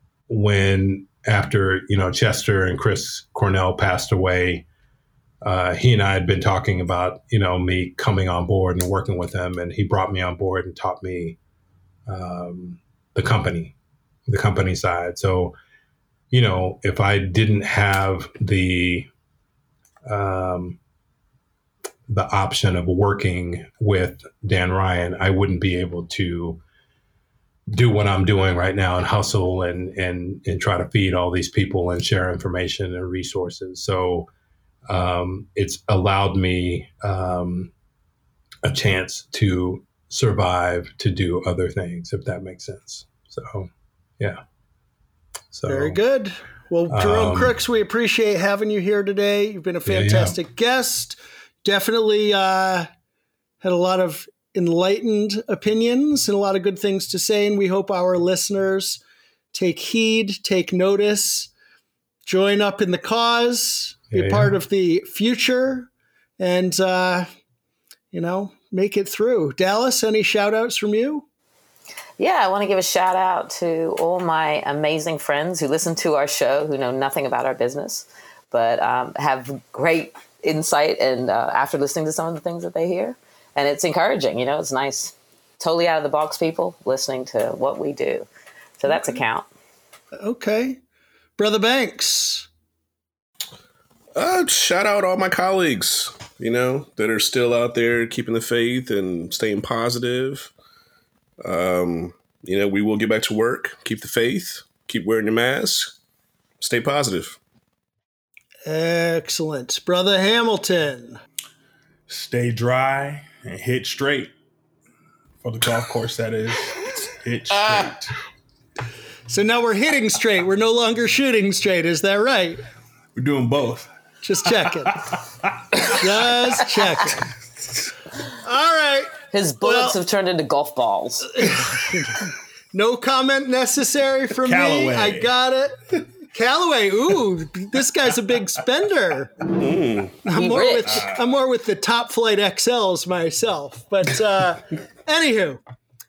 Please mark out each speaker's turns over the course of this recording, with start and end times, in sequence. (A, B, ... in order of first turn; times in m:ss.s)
0:00.3-0:04.7 A
0:05.4-0:11.4 A
0:12.1-0:13.8 A
0:14.3-0:15.5 A
0:16.3-0:19.1 A
0:20.1-0:20.8 A
0:22.1-0:26.6 A
0:27.7-0:34.3 A
0:34.9-0:37.7 A
0:38.6-0:44.4 A
0:45.5-0:46.0 A
0:45.7-0:52.9 B
0:46.9-0:47.6 A
0:49.9-0:50.4 A
0:53.6-0:59.0 B
0:59.5-1:01.5 B
1:02.3-1:07.3 B
1:04.1-1:04.6 A
1:08.1-1:11.3 B
1:12.2-1:28.3 C
1:28.8-1:29.5 C
1:30.2-1:30.8 B
1:31.4-1:32.5 B
1:34.2-1:40.5 D
1:41.4-1:46.0 D
1:46.6-1:47.4 D
1:48.7-1:51.2 B
1:52.1-1:54.3 E
1:55.4-1:58.1 E
1:59.3-2:02.6 B
2:03.2-2:03.9 E
2:04.2-2:05.0 B
2:04.6-2:06.2 E
2:05.9-2:07.3 B
2:08.3-2:10.0 B
2:09.3-2:11.7 C
2:11.4-2:19.4 B
2:14.4-2:15.3 E
2:19.6-2:20.2 D
2:20.2-2:25.6 B
2:20.3-2:21.1 C